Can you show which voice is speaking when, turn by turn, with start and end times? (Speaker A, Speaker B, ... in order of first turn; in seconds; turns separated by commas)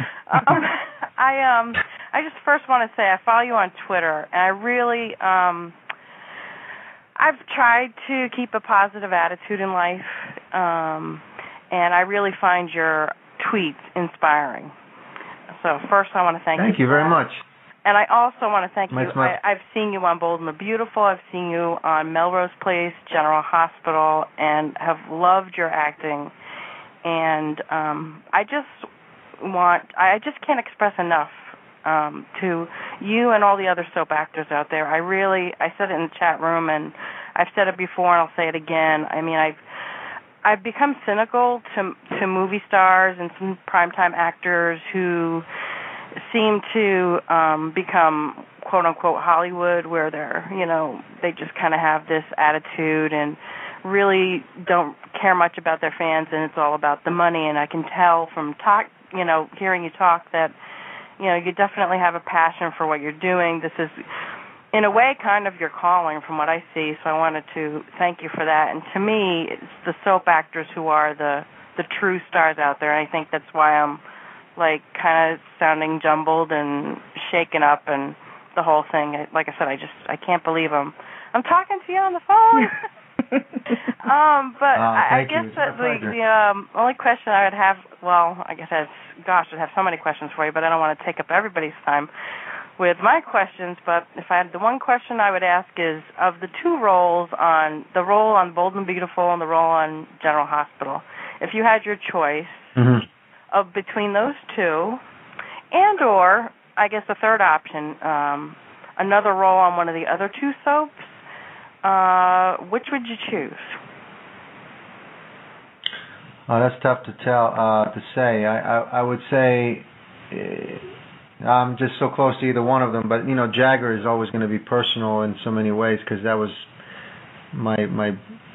Speaker A: 0.3-5.7, Speaker A: 7.2-14.7, Speaker A: 15.6-17.2, Speaker B: 16.6-17.4, Speaker A: 17.8-26.3, Speaker B: 18.9-19.3, Speaker A: 27.0-28.9, Speaker A: 29.4-39.6, Speaker A: 40.4-45.4, Speaker A: 46.2-60.5, Speaker A: 61.2-64.0, Speaker A: 64.7-74.0, Speaker A: 74.5-82.8, Speaker A: 84.0-92.1, Speaker B: 84.7-86.2, Speaker A: 92.8-102.7, Speaker B: 102.8-103.0, Speaker A: 103.5-105.0, Speaker A: 105.7-110.9, Speaker A: 111.8-113.8, Speaker B: 116.5-120.9, Speaker B: 121.4-126.7, Speaker B: 127.5-128.2